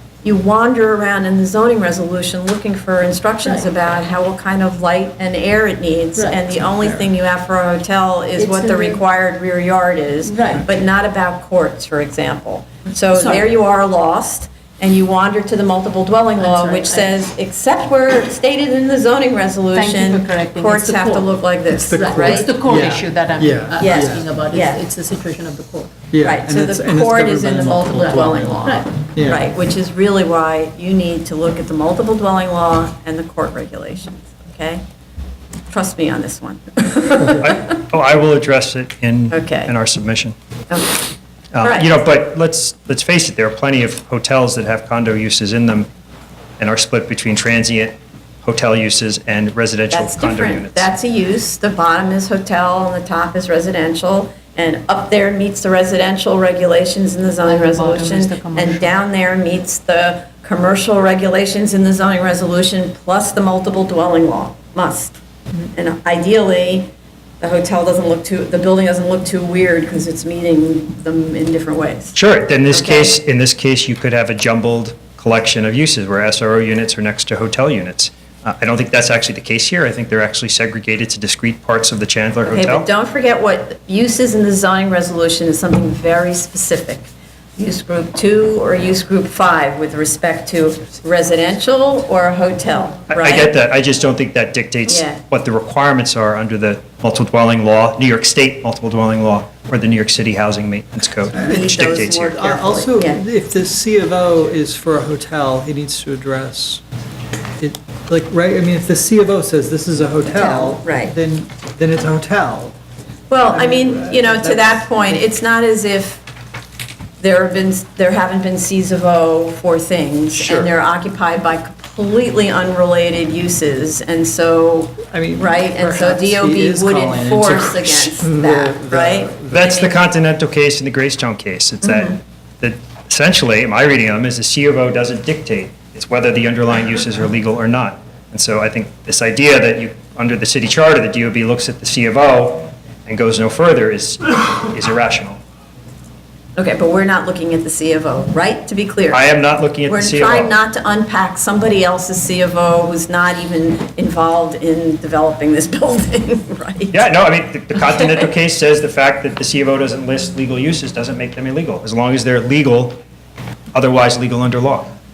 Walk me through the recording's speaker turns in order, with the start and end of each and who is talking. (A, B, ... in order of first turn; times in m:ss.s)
0:00.2-0:22.5 A
0:03.4-0:03.7 B
0:06.2-0:06.7 B
0:08.4-0:09.0 B
0:10.2-0:10.6 B
0:16.4-0:17.2 B
0:19.7-0:21.4 B
0:21.9-0:24.3 C
0:21.9-0:26.0 B
0:23.8-0:24.8 A
0:26.1-0:29.4 C
0:26.2-0:34.8 A
0:28.1-0:28.9 B
0:35.7-0:37.8 A
0:37.4-0:40.4 D
0:39.3-0:39.7 A
0:40.7-0:42.0 A
0:41.5-0:45.9 D
0:46.6-0:50.9 D
0:49.9-1:05.2 A
0:57.4-0:59.0 B
1:05.7-1:12.2 A
1:12.2-1:22.9 D
1:12.7-1:13.1 A
1:22.4-1:33.5 A
1:33.1-1:42.4 D
1:34.9-1:35.2 A
1:41.3-1:46.8 C
1:41.4-1:43.2 A
1:47.6-1:52.8 C
1:50.2-1:51.1 A
1:53.3-1:56.2 A
1:53.4-1:55.2 C
1:57.2-2:09.9 A
2:00.3-2:00.7 C
2:05.1-2:09.8 C
2:09.5-2:25.4 D
2:11.8-2:12.2 A
2:26.6-2:29.3 A
2:29.1-2:30.5 D
2:29.9-2:37.0 A
2:36.9-2:43.0 D
2:43.7-2:44.9 D